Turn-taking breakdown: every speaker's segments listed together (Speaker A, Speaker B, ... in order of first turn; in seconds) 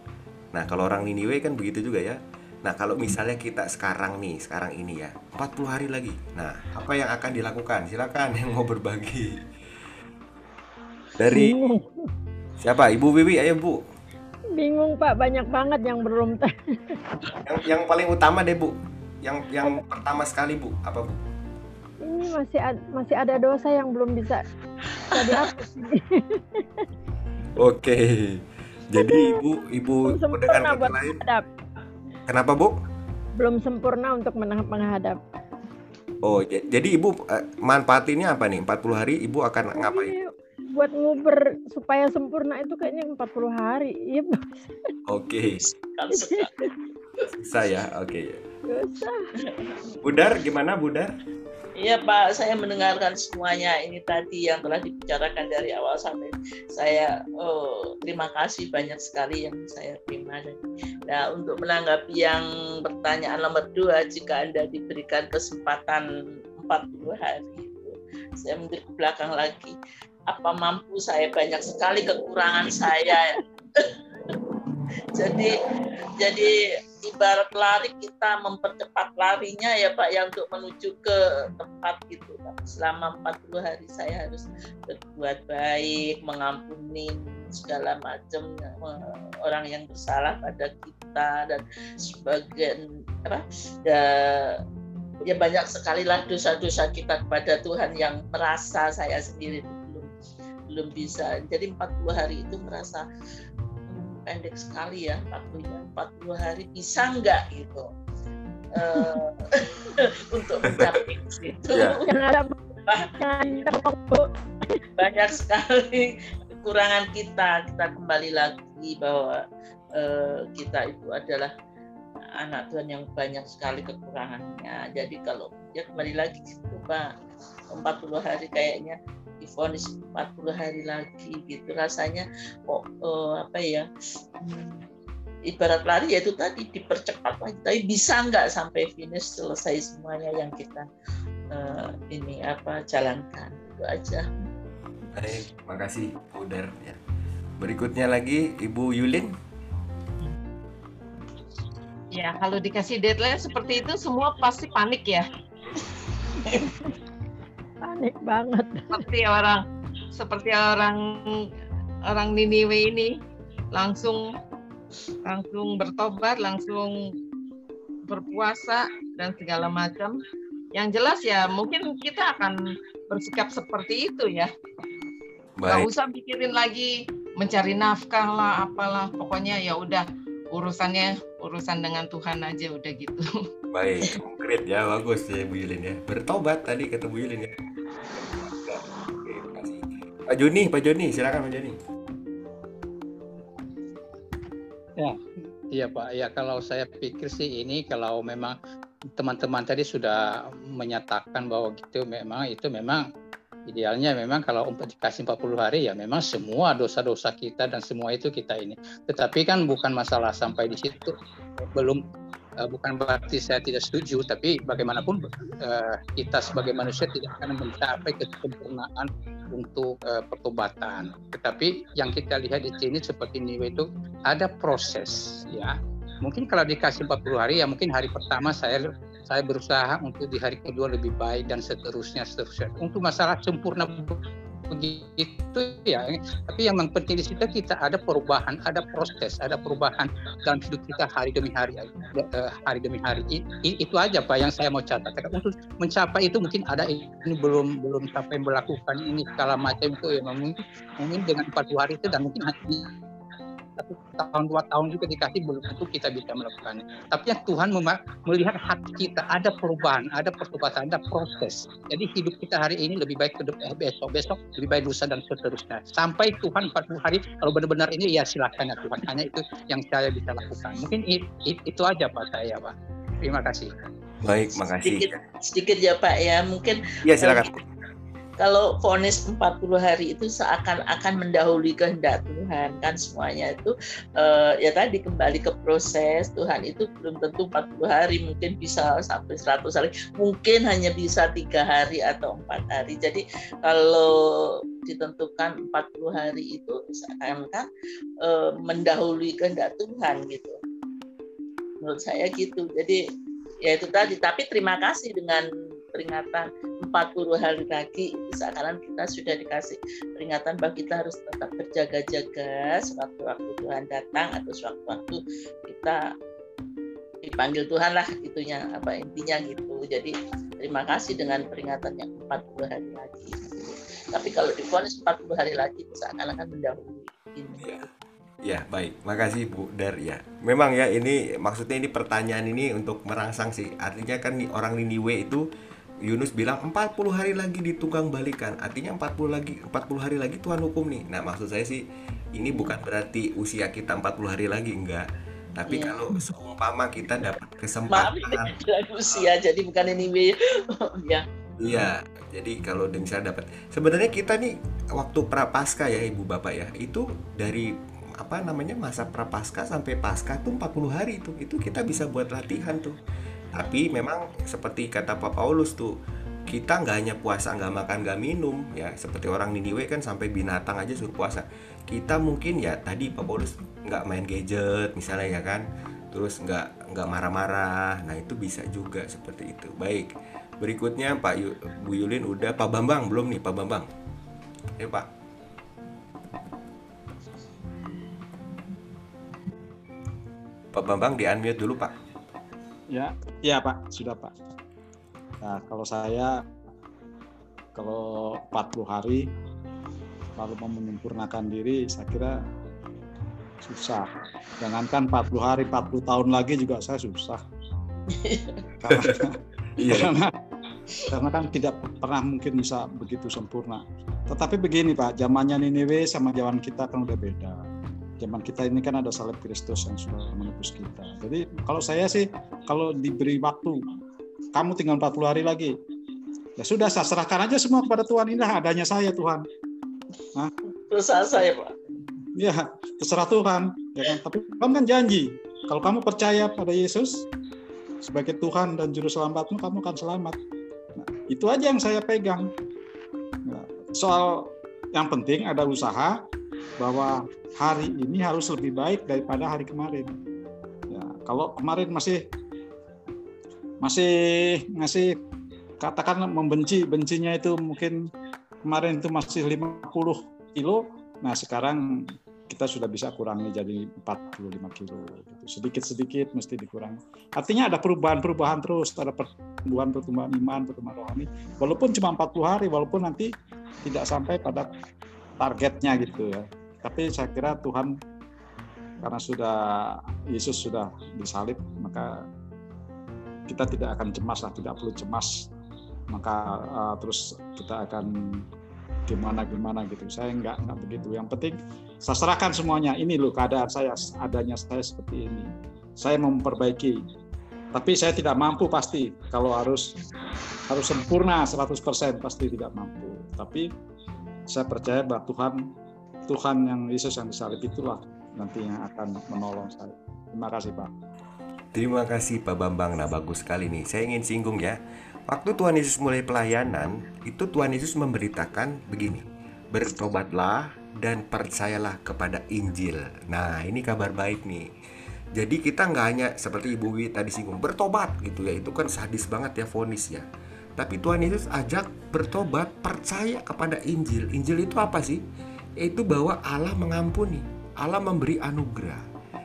Speaker A: 0.5-9.3, 11.2-11.6, 12.6-13.8, 17.4-21.1, 27.6-28.4, 28.9-31.2, 32.3-32.7, 36.2-40.1, 45.1-45.6, 47.3-48.4, 50.0-51.1, 145.1-147.0, 147.6-149.3, 175.6-175.9, 183.7-187.5, 188.1-191.7, 274.2-275.2, 277.0-277.6, 328.4-335.4, 336.1-341.8, 342.3-345.0, 345.6-348.5, 351.6-357.7, 358.2-362.9, 363.5-365.9, 366.5-383.9, 384.8-385.1, 390.7-391.9, 511.7-524.7, 525.4-530.2, 530.8-535.2, 535.8-539.0
Speaker B: 11.3-11.8, 14.6-16.9, 22.0-24.4, 25.1-26.6, 29.0-29.4, 30.0-31.4, 33.4-35.2, 39.8-44.6, 46.2-46.5, 48.7-49.2, 112.0-112.5, 113.2-114.3, 157.8-159.1
Speaker C: 25.2-25.4, 45.7-46.5, 51.8-66.0, 66.6-69.7, 70.3-73.3, 75.2-75.5, 76.2-76.5, 77.0-94.5, 95.2-100.1, 100.7-103.0, 103.9-107.9, 108.7-109.3, 110.3-112.0, 112.9-113.7, 115.0-119.4, 120.0-121.5, 122.4-127.1, 127.7-133.8, 134.4-134.8, 135.5-140.8, 141.5-144.2, 274.7-277.4, 278.4-294.1, 294.9-297.6, 298.3-300.6, 301.8-303.0, 303.7-316.0, 317.2-327.6, 345.6-345.9, 347.9-351.2, 408.2-408.6, 430.9-431.7
Speaker D: 152.1-155.3, 158.9-161.4, 162.0-163.2, 163.7-164.3, 165.2-167.0, 168.1-170.2, 170.7-174.5, 175.6-183.3
Speaker E: 195.8-198.5, 199.2-200.1, 200.8-203.0, 203.7-211.1, 212.7-225.7, 226.2-234.2, 234.7-250.5, 251.0-252.9, 253.8-272.7, 273.2-273.7
Speaker F: 392.9-394.3, 395.4-396.3, 397.7-399.2, 400.4-402.4, 403.6-404.1, 404.6-407.4, 408.8-409.4, 409.9-410.3, 411.1-417.6, 418.2-423.8, 424.5-425.7, 426.6-429.4, 432.4-437.2, 438.0-440.4, 441.0-442.5, 443.5-446.1, 446.8-450.1, 450.9-452.2, 453.8-455.1, 455.8-457.9, 458.6-461.8, 462.5-473.3, 473.8-474.7, 475.4-477.9, 479.0-479.5, 480.3-482.1, 483.5-485.5, 486.1-488.1, 489.1-497.0, 497.7-499.9, 500.7-503.6, 504.5-505.6, 506.3-510.9